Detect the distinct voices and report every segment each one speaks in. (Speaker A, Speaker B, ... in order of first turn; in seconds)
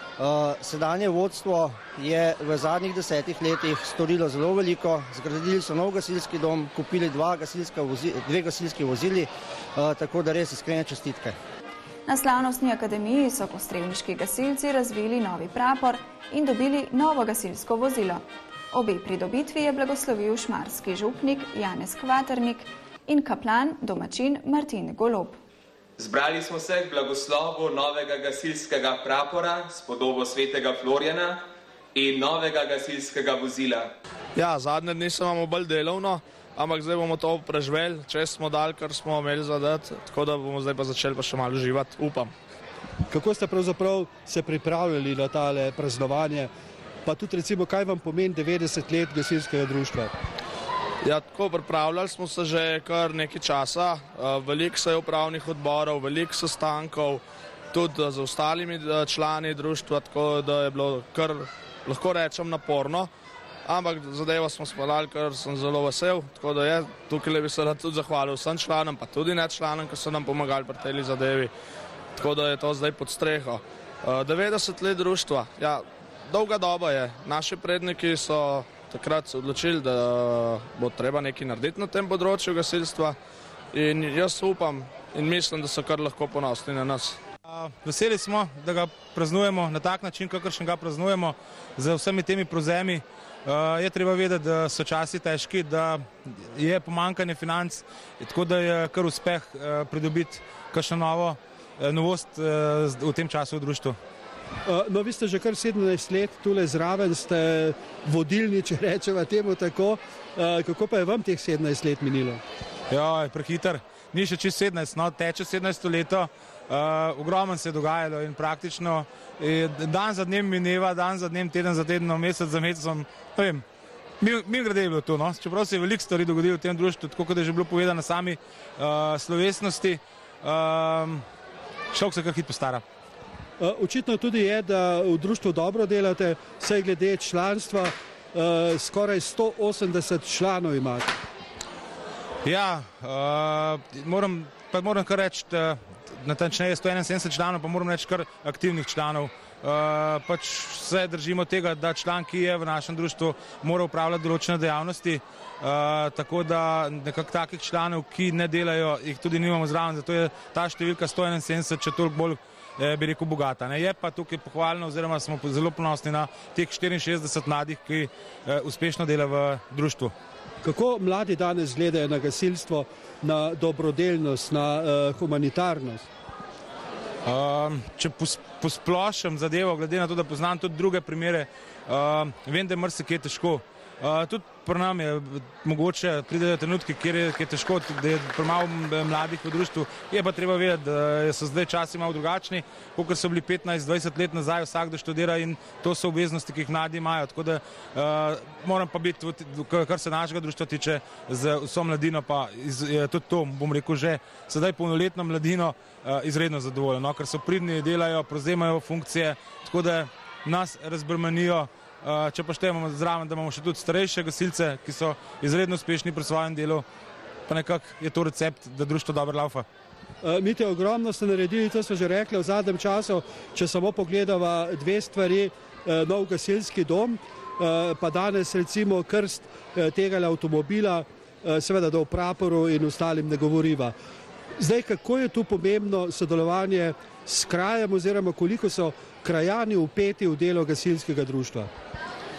Speaker A: 0.2-11.3
Speaker B: 12.1-25.4
Speaker C: 26.0-31.4, 31.9-33.9
Speaker D: 34.4-42.3, 51.0-63.1, 63.6-71.5, 72.2-83.2, 83.7-87.2
Speaker E: 43.1-46.5, 47.0-50.1, 104.6-112.4, 133.6-141.1, 170.6-176.1, 220.2-233.9, 234.6-241.7
Speaker F: 87.5-104.0, 112.9-123.6, 124.2-131.2, 131.9-132.8, 142.4-170.1, 177.2-216.8, 217.5-219.7